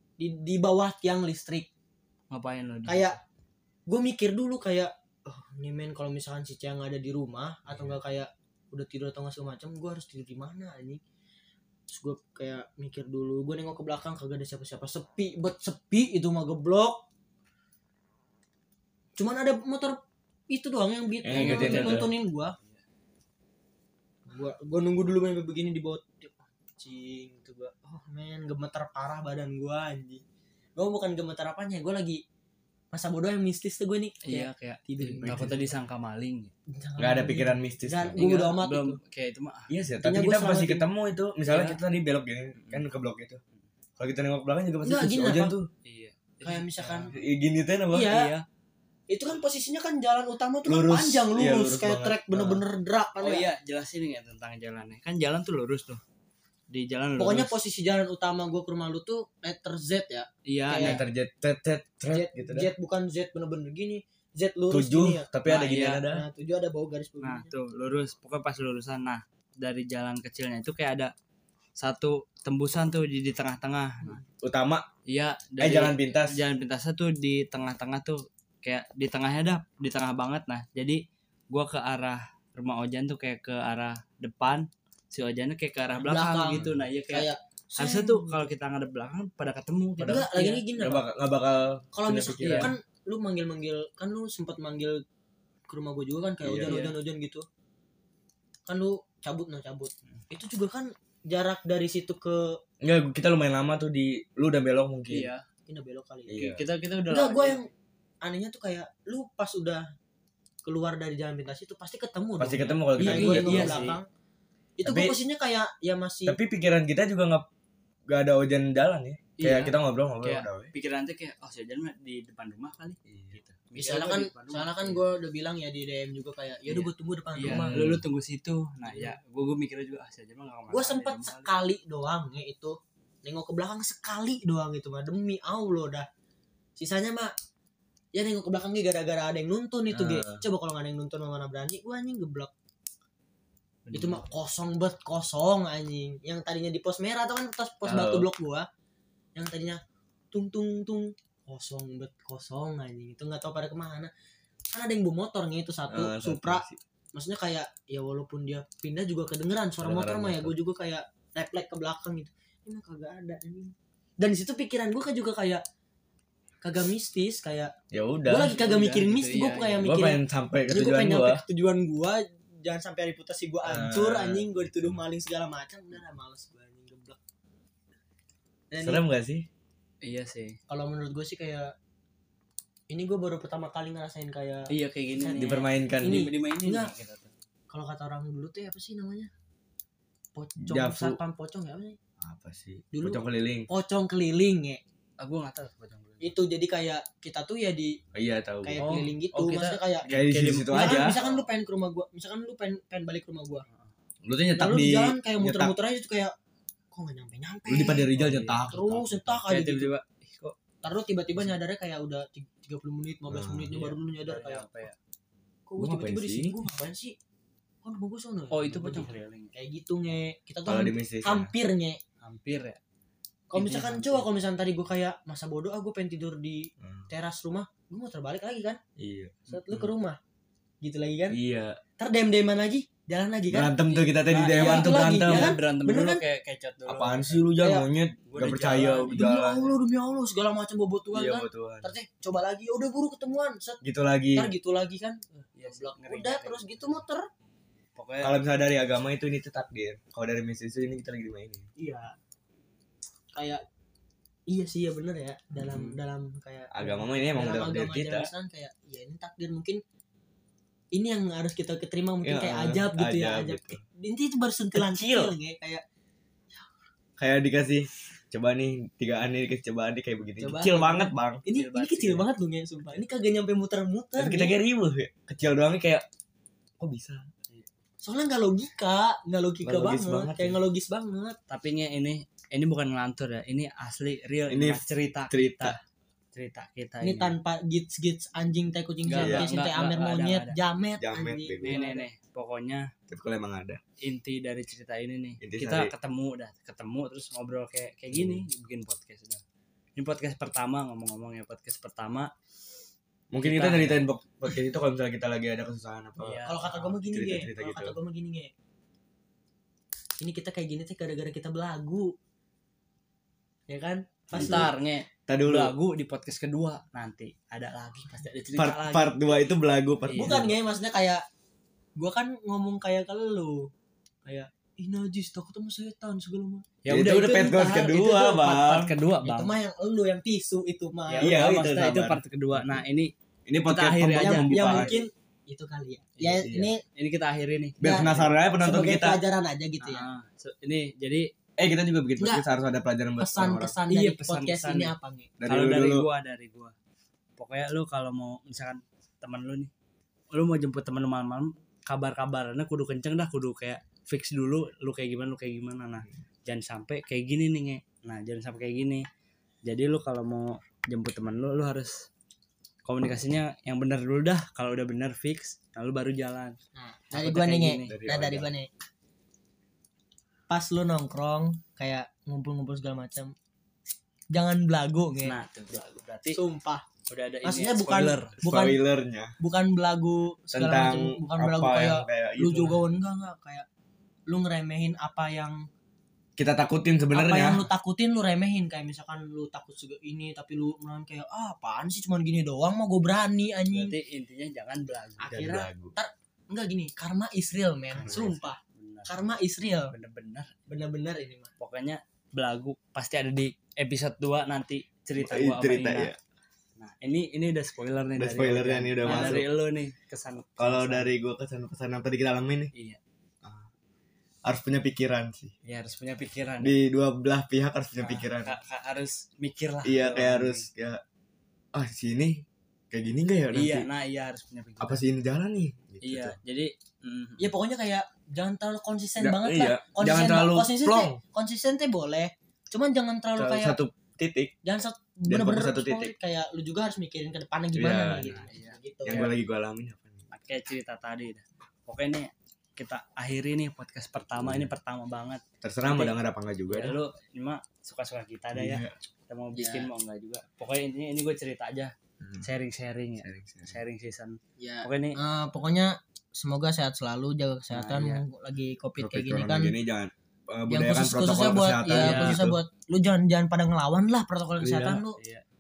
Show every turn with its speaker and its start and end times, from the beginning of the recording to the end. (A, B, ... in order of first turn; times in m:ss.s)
0:00.2-0:01.7 A
0:02.3-0:03.2 B
0:02.9-0:03.2 A
0:03.9-0:11.0 A
0:11.9-0:17.0 A
0:19.2-0:22.5 A
0:21.2-0:22.1 C
0:21.3-0:22.8 B
0:24.3-0:30.2 A
0:30.8-0:32.2 A
0:32.9-0:35.5 A
0:34.2-0:36.5 B
0:35.2-0:35.6 C
0:36.7-0:39.0 A
0:37.0-0:38.2 C
0:38.2-0:39.7 B
0:39.7-0:43.4 C
0:40.0-0:40.8 A
0:41.4-0:41.8 B
0:42.5-0:42.8 B
0:44.0-0:45.7 C
0:44.8-0:45.5 A
0:45.8-0:47.1 B
0:46.4-0:47.1 A
0:47.1-0:48.1 C
0:47.9-0:48.3 A
0:48.1-0:48.4 B
0:49.1-0:53.5 A
0:50.6-0:52.6 C
0:53.2-0:56.0 B
0:56.7-0:57.5 B
0:57.2-1:01.0 A
1:00.4-1:01.0 B
1:00.8-1:02.7 C
1:02.1-1:05.3 A
1:04.7-1:06.2 C
1:05.4-1:06.0 B
1:06.0-1:07.5 A
1:07.2-1:11.1 B
1:11.8-1:14.2 B
1:14.4-1:14.8 C
1:15.0-1:30.6 B
1:15.6-1:16.4 C
1:26.0-1:28.5 A
1:26.6-1:26.9 C
1:30.0-1:32.7 C
1:30.0-1:31.0 A
1:31.9-1:35.0 A
1:32.4-1:32.7 B
1:35.7-1:37.4 A
1:36.4-1:36.8 C
1:36.6-1:36.9 B
1:38.7-1:42.6 A
1:42.8-1:45.3 C
1:45.1-1:45.4 B
1:45.7-1:46.5 A
1:46.3-1:46.6 C
1:46.4-1:47.7 B
1:47.1-1:47.7 A
1:48.2-1:49.8 A
1:50.6-1:54.1 A
1:52.4-1:53.9 C
1:52.9-1:54.0 B
1:54.8-1:56.4 A
1:54.8-1:55.2 C
1:56.2-1:57.4 C
1:58.1-2:00.7 C
1:59.4-2:05.0 B
2:03.0-2:03.4 C
2:03.7-2:07.8 A
2:06.7-2:11.5 B
2:07.4-2:08.0 C
2:08.8-2:09.2 A
2:10.7-2:16.1 A
2:16.8-2:17.3 A
2:18.1-2:22.5 A
2:19.9-2:20.4 C
2:23.8-2:24.2 B
2:23.9-2:28.7 A
2:27.8-2:28.3 C
2:29.3-2:29.8 A
2:30.3-2:34.1 A
2:34.7-2:45.6 A
2:35.9-2:36.8 C
2:39.8-2:40.5 C
2:46.6-2:47.7 A
2:47.9-2:48.5 C
2:48.2-2:57.2 A
2:48.4-2:49.9 B
2:49.8-2:51.4 C
2:53.6-2:55.0 C
2:58.7-2:59.0 A
2:58.8-2:59.5 C
3:00.0-3:00.6 B
3:00.7-3:01.7 A
3:02.9-3:06.9 A
3:04.7-3:07.3 B
3:05.3-3:06.3 C
3:07.7-3:09.3 A
3:10.4-3:12.0 A
3:10.6-3:11.2 C
3:12.2-3:13.7 C
3:12.9-3:14.8 A
3:15.2-3:16.4 B
3:16.2-3:18.0 A
3:18.1-3:18.8 C
3:18.6-3:20.1 A
3:18.8-3:21.5 B
3:20.1-3:21.2 C
3:20.7-3:23.6 A
3:24.2-3:25.7 C
3:24.6-3:26.3 A
3:26.9-3:28.1 A
3:27.7-3:29.4 C
3:28.1-3:28.6 B
3:28.7-3:29.9 A
3:29.5-3:30.6 B
3:30.8-3:34.9 A
3:33.3-3:33.9 C
3:34.2-3:35.0 B
3:35.7-3:37.2 A
3:35.8-3:36.6 C
3:37.8-3:42.0 A
3:38.5-3:39.5 B
3:40.6-3:41.5 C
3:42.2-3:42.8 B
3:43.5-3:48.8 A
3:43.6-3:44.3 B
3:46.8-3:47.1 C
3:49.0-3:49.9 C
3:49.5-3:50.2 A
3:50.8-3:51.4 A
3:51.3-3:51.8 C
3:52.0-3:53.8 A
3:53.5-3:55.5 C
3:54.1-3:57.4 B
3:54.5-3:56.2 A
3:56.8-3:59.7 C
3:57.6-3:57.8 A
3:58.2-3:59.3 B
3:59.1-4:03.8 A
4:01.1-4:01.9 C
4:03.8-4:04.5 C
4:04.3-4:07.2 A
4:05.5-4:07.0 B
4:08.0-4:08.3 B
4:08.2-4:11.7 C
4:11.8-4:12.1 A
4:13.3-4:13.6 A
4:14.5-4:19.8 A
4:15.7-4:15.9 C
4:16.7-4:18.3 C
4:20.9-4:25.8 A
4:22.2-4:23.8 C
4:24.7-4:25.3 C
4:27.2-4:31.4 C
4:30.4-4:34.5 A
4:31.5-4:32.3 B
4:34.2-4:36.0 C
4:36.8-4:37.3 C
4:38.0-4:41.4 A
4:39.6-4:40.6 C
4:41.5-4:45.8 B
4:44.5-4:45.8 C
4:46.3-4:47.4 B
4:47.0-4:52.0 A
4:49.0-4:50.6 B
4:49.2-4:49.5 C
4:51.0-4:51.8 C
4:51.6-4:52.9 B
4:53.1-4:53.8 C
4:54.0-4:59.4 B
4:55.4-4:55.9 C
4:58.1-4:58.4 C
5:00.0-5:02.3 B
5:03.3-5:06.4 C
5:03.4-5:04.0 B
5:06.2-5:06.9 B
5:06.4-5:08.5 A
5:07.0-5:08.0 C
5:10.2-5:12.1 A
5:13.7-5:14.7 A
5:14.3-5:14.7 C
5:14.3-5:19.1 B
5:15.3-5:15.7 C
5:18.6-5:20.5 C
5:20.1-5:20.5 B
5:20.2-5:21.2 A
5:22.0-5:23.7 A
5:24.2-5:28.6 A
5:26.8-5:29.5 B
5:26.9-5:28.9 C
5:29.2-5:31.7 A
5:31.1-5:33.1 B
5:31.2-5:32.8 C
5:33.4-5:35.0 C
5:33.6-5:35.0 B
5:34.1-5:36.8 A
5:36.2-5:36.7 C
5:37.0-5:38.2 B
5:37.8-5:39.2 C
5:37.8-5:40.0 A
5:39.8-5:41.3 B
5:41.6-5:43.7 C
5:43.2-5:45.3 A
5:43.9-5:44.9 B
5:45.4-5:46.1 C
5:45.4-5:46.7 B
5:47.4-5:49.7 B
5:50.3-5:59.0 B
5:59.6-6:02.1 B
6:02.8-6:06.6 B
6:06.7-6:08.7 A
6:07.1-6:07.9 B
6:07.8-6:08.5 C
6:10.5-6:13.3 A
6:14.3-6:15.4 A
6:15.2-6:16.4 B
6:16.3-6:16.8 A
6:17.1-6:18.4 B
6:17.4-6:18.8 A
6:18.4-6:19.3 C
6:19.4-6:23.6 A
6:20.5-6:22.8 C
6:24.3-6:25.6 A
6:26.4-6:27.6 C
6:27.1-6:33.9 A
6:33.7-6:35.3 B
6:35.2-6:39.9 A
6:35.3-6:35.9 C
6:37.9-6:38.4 C
6:38.0-6:39.2 B
6:39.9-6:40.5 B
6:40.7-6:41.5 A
6:41.6-6:46.1 B
6:45.2-6:46.2 C
6:46.8-6:51.1 B
6:48.2-6:49.5 C
6:49.0-6:49.4 A
6:50.6-6:52.7 C
6:52.7-6:53.0 B
6:54.4-6:55.5 C
6:55.6-6:56.7 B
6:56.6-6:58.5 C
6:58.0-7:00.7 B
6:59.8-7:01.0 C
7:01.7-7:03.9 C
7:03.5-7:05.0 B
7:04.8-7:06.4 C
7:06.0-7:07.5 B
7:07.4-7:13.8 A
7:09.2-7:11.2 C
7:13.4-7:14.5 C
7:14.6-7:19.2 A
7:15.3-7:16.1 C
7:17.7-7:18.4 C
7:18.2-7:19.3 B
7:19.0-7:20.3 C
7:20.3-7:26.1 B
7:24.4-7:24.7 C
7:25.6-7:27.0 C
7:26.7-7:35.2 B
7:28.5-7:28.9 C
7:29.5-7:29.9 A
7:32.2-7:32.5 C
7:33.2-7:33.8 C
7:34.6-7:39.7 A
7:37.7-7:38.2 B
7:39.0-7:42.6 C
7:40.7-7:45.2 A
7:41.9-7:42.4 B
7:44.6-7:45.0 C
7:45.1-7:45.4 B